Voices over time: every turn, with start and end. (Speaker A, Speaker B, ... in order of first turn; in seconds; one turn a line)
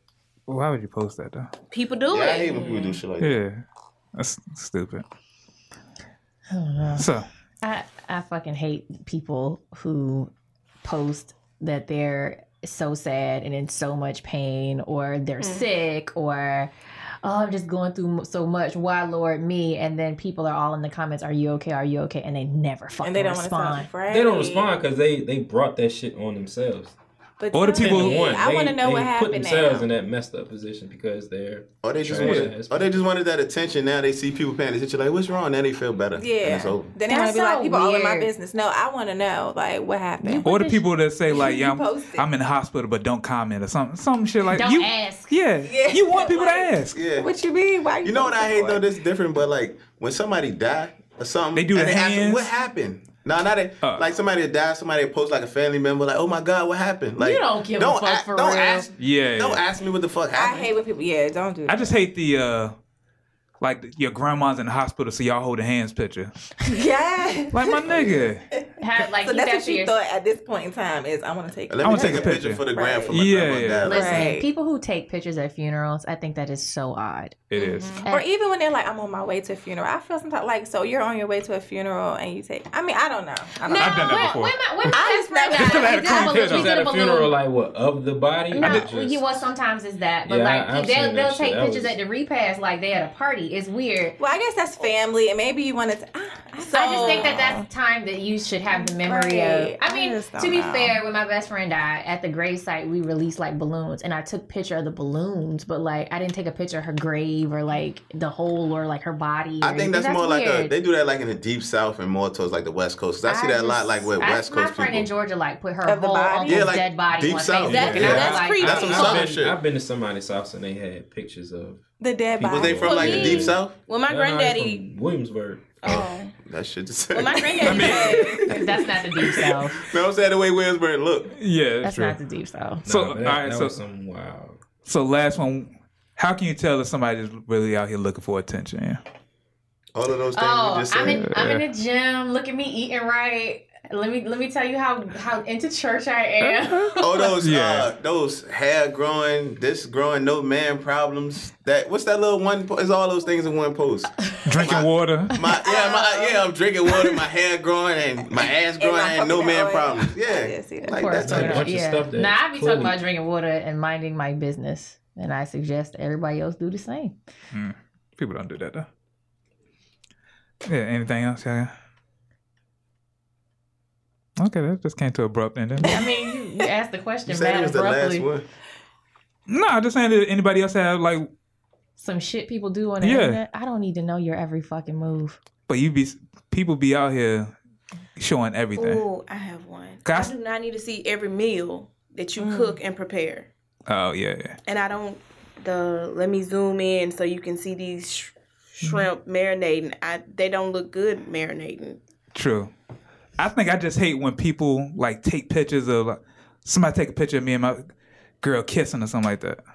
Speaker A: 0.5-1.5
Speaker B: 1.7-3.0
Speaker C: 2.1-3.3
Speaker A: 3.2-3.6
Speaker A: 4.1-5.0
Speaker D: 6.5-7.1
Speaker A: 7.0-7.3
Speaker D: 7.6-10.3
Speaker D: 10.8-16.7
Speaker D: 17.2-23.9
Speaker E: 23.0-24.7
Speaker F: 24.1-26.9
Speaker E: 27.4-29.9
Speaker A: 27.5-28.4
Speaker F: 27.7-33.0
Speaker C: 31.8-36.9
Speaker A: 32.2-32.5
Speaker E: 36.2-40.5
Speaker D: 37.1-38.3
Speaker D: 40.2-40.8
Speaker A: 40.4-47.0
Speaker E: 41.3-42.3
Speaker D: 44.5-45.4
Speaker E: 45.6-48.8
Speaker C: 46.9-47.3
Speaker C: 48.0-60.7
Speaker A: 51.5-52.5
Speaker D: 57.2-58.9
Speaker A: 59.0-59.6
Speaker E: 60.3-61.9
Speaker A: 61.6-62.7
Speaker A: 63.6-66.3
Speaker E: 66.6-67.9
Speaker A: 67.5-68.4
Speaker C: 67.8-68.3
Speaker E: 68.5-73.1
Speaker D: 68.8-69.9
Speaker C: 71.7-74.2
Speaker A: 71.8-74.0
Speaker E: 73.8-74.5
Speaker D: 73.8-77.3
Speaker A: 77.5-78.0
Speaker E: 77.5-84.3
Speaker B: 83.7-84.0
Speaker D: 83.8-87.3
Speaker A: 83.8-85.0
Speaker E: 84.9-86.5
Speaker A: 85.5-86.8
Speaker F: 86.3-89.5
Speaker D: 88.5-94.2
Speaker F: 90.2-92.0
Speaker E: 94.2-97.7
Speaker B: 96.6-97.5
Speaker D: 96.8-110.7
Speaker E: 98.7-101.0
Speaker C: 109.6-115.1
Speaker D: 113.2-118.6
Speaker E: 115.8-116.7
Speaker C: 116.4-119.6
Speaker B: 117.7-119.3
Speaker F: 117.9-121.8
Speaker E: 122.0-123.3
Speaker C: 122.4-123.7
Speaker F: 122.4-125.8
Speaker B: 122.8-124.8
Speaker B: 125.8-126.3
Speaker C: 125.8-128.2
Speaker B: 127.1-128.3
Speaker E: 127.6-128.6
Speaker A: 127.6-128.5
Speaker D: 128.4-129.8
Speaker C: 129.3-131.3
Speaker A: 131.3-132.2
Speaker D: 131.8-132.8
Speaker F: 132.8-134.6
Speaker A: 132.8-133.8
Speaker A: 134.8-139.0
Speaker C: 139.9-141.2
Speaker D: 140.3-147.3
Speaker A: 141.1-141.6
Speaker A: 146.4-147.9
Speaker C: 147.0-161.7
Speaker A: 154.4-155.3
Speaker E: 155.6-156.4
Speaker E: 158.8-161.2
Speaker D: 160.9-167.2
Speaker F: 161.2-163.0
Speaker A: 167.5-168.9
Speaker A: 170.7-171.7
Speaker A: 174.4-176.0
Speaker D: 175.9-178.3
Speaker E: 175.9-176.6
Speaker C: 177.3-178.4
Speaker A: 179.5-181.3
Speaker D: 182.0-185.4
Speaker A: 183.0-183.4
Speaker A: 185.7-187.5
Speaker A: 188.2-189.1
Speaker B: 188.7-193.5
Speaker A: 190.0-190.3
Speaker E: 192.4-192.8
Speaker A: 193.9-194.6
Speaker B: 194.7-202.0
Speaker A: 202.3-202.7
Speaker A: 203.4-209.6